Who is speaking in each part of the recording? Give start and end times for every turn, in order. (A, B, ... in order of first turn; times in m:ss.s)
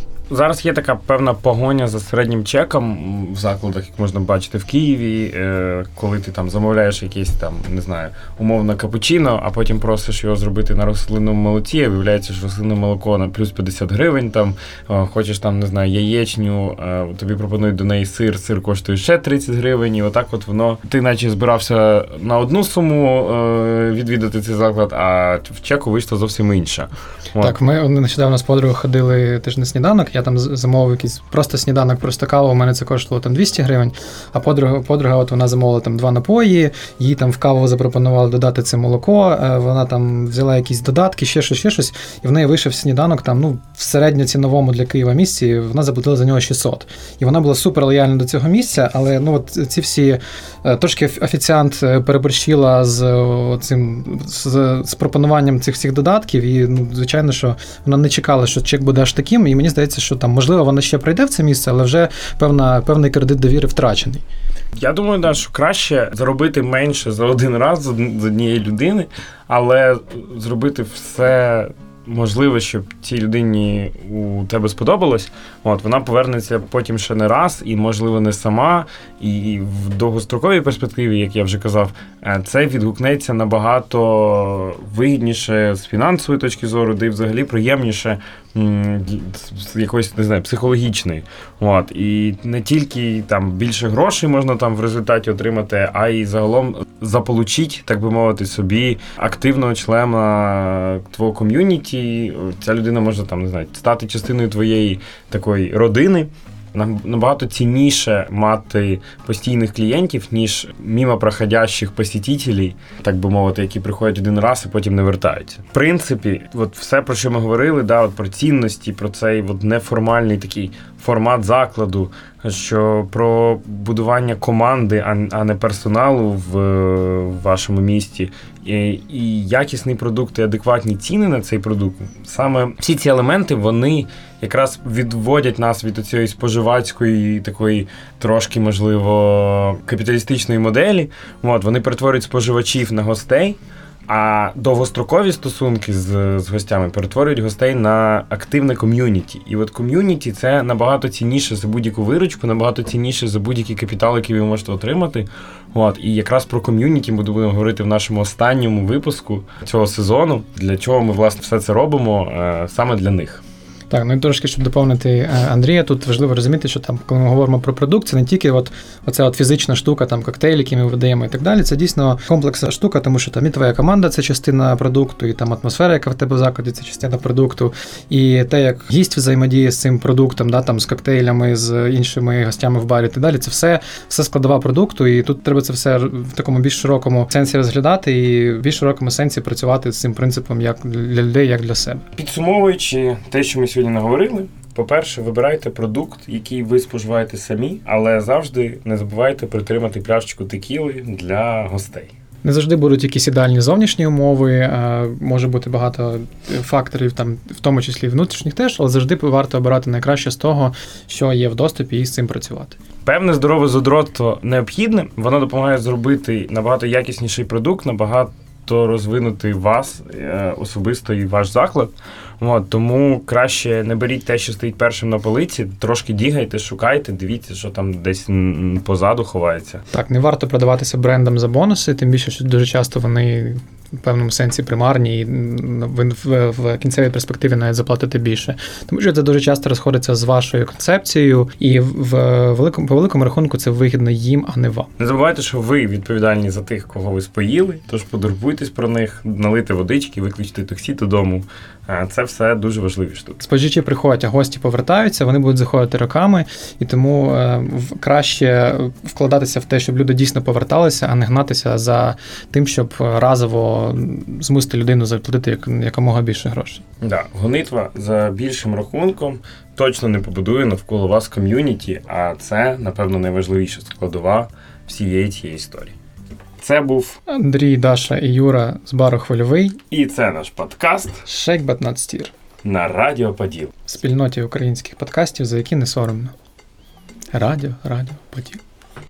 0:00.3-0:27.6 A
0:27.4-1:04.2 B
1:04.8-2:43.4 A
2:43.9-3:12.1 B
3:12.2-3:22.1 A
3:22.4-3:32.8 B
3:33.0-3:49.8 A
3:49.9-4:04.9 B
4:05.0-4:13.4 A
4:13.4-4:26.8 B
4:27.0-4:36.0 A
4:36.6-4:37.2 A
4:37.3-4:39.8 B
4:39.9-4:41.2 A
4:41.3-4:42.3 B
4:42.6-4:43.7 A
4:43.9-4:46.3 B
4:47.3-4:48.6 B